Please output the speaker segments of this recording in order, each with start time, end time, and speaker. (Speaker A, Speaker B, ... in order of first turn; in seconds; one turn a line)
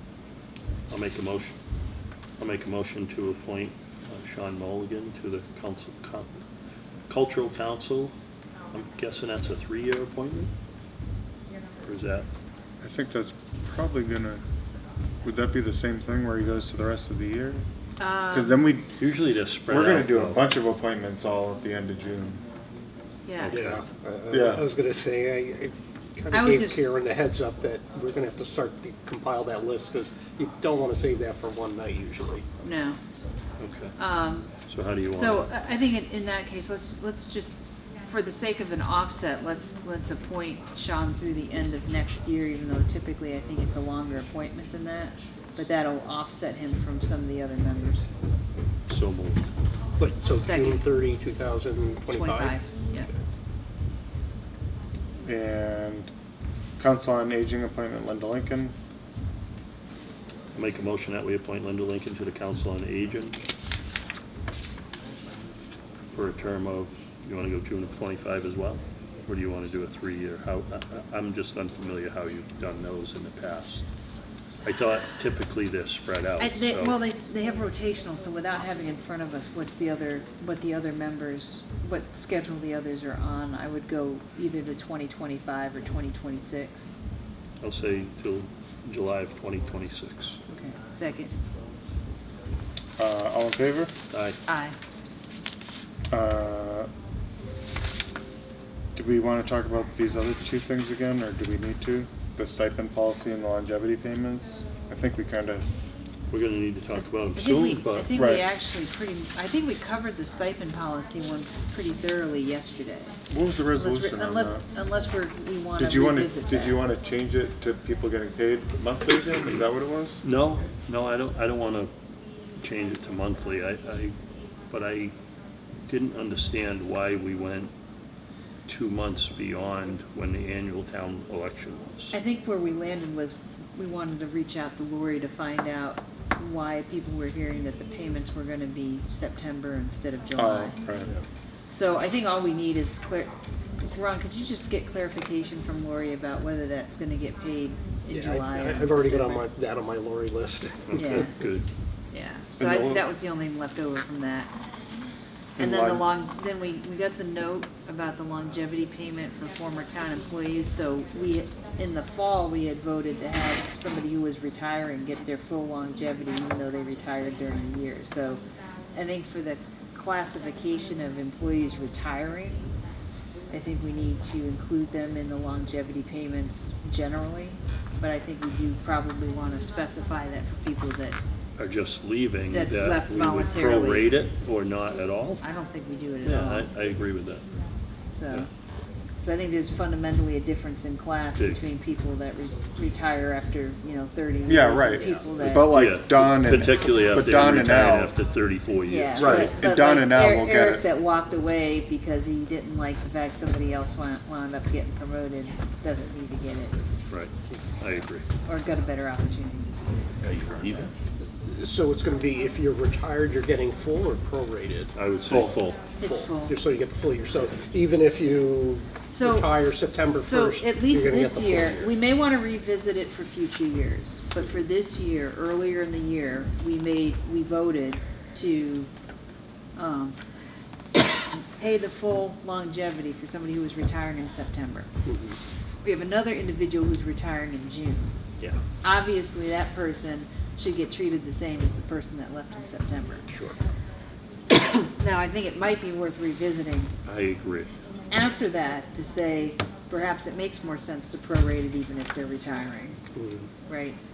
Speaker A: 0.9-1.6
Speaker A: 2.4-6.4
Speaker A: 7.1-8.1
Speaker A: 8.7-10.5
Speaker A: 11.8-12.3
Speaker B: 12.8-14.4
Speaker B: 15.2-17.6
Speaker C: 18.0-18.6
Speaker B: 18.3-18.9
Speaker A: 19.0-20.5
Speaker B: 19.7-22.4
Speaker C: 23.2-23.6
Speaker A: 23.4-23.8
Speaker D: 23.5-32.5
Speaker B: 24.3-24.7
Speaker C: 26.3-26.8
Speaker C: 32.6-33.0
Speaker A: 33.6-34.0
Speaker C: 34.0-34.5
Speaker A: 34.7-35.5
Speaker C: 35.1-37.5
Speaker C: 38.1-48.0
Speaker A: 48.9-49.5
Speaker D: 50.0-52.6
Speaker C: 50.3-50.8
Speaker C: 52.1-53.1
Speaker B: 55.2-56.1
Speaker B: 56.8-58.7
Speaker A: 60.5-63.4
Speaker A: 66.1-73.9
Speaker A: 74.6-77.0
Speaker C: 76.4-86.9
Speaker A: 87.6-90.4
Speaker C: 90.5-91.3
Speaker B: 93.0-93.9
Speaker A: 94.1-94.4
Speaker C: 94.5-94.8
Speaker B: 96.1-96.9
Speaker B: 98.9-105.7
Speaker A: 106.3-108.1
Speaker C: 107.3-113.1
Speaker B: 108.1-108.5
Speaker B: 113.3-114.6
Speaker C: 113.7-116.8
Speaker B: 115.8-120.2
Speaker A: 120.2-121.9
Speaker A: 122.6-124.2
Speaker A: 124.7-125.1
Speaker A: 125.8-127.7
Speaker A: 128.7-132.1
Speaker C: 132.1-140.8
Speaker B: 140.3-141.1
Speaker C: 141.7-149.5
Speaker D: 148.1-151.2
Speaker A: 150.9-151.7
Speaker C: 150.9-151.4
Speaker C: 152.1-154.5
Speaker B: 152.6-153.1
Speaker B: 155.6-156.1
Speaker C: 155.6-168.4
Speaker C: 168.9-172.7
Speaker C: 173.5-181.2
Speaker A: 181.6-185.4
Speaker C: 182.5-184.1
Speaker C: 185.4-186.7
Speaker A: 186.2-187.5
Speaker C: 188.1-188.5
Speaker C: 189.2-195.9
Speaker B: 194.5-198.2
Speaker A: 195.7-199.6
Speaker C: 198.8-206.9
Speaker B: 199.1-200.8
Speaker A: 207.1-208.3
Speaker C: 208.4-209.8
Speaker A: 210.3-210.9
Speaker D: 211.4-215.4
Speaker A: 214.9-215.9
Speaker B: 215.3-215.6
Speaker C: 215.9-216.6
Speaker D: 215.9-221.8
Speaker C: 219.1-228.9
Speaker C: 229.8-230.2
Speaker C: 231.3-234.9
Speaker D: 235.1-235.4
Speaker C: 235.8-238.1
Speaker C: 238.8-243.3
Speaker D: 243.3-243.6
Speaker C: 244.6-246.9
Speaker A: 247.0-247.7
Speaker C: 248.1-253.0
Speaker D: 253.1-253.5
Speaker C: 253.7-254.0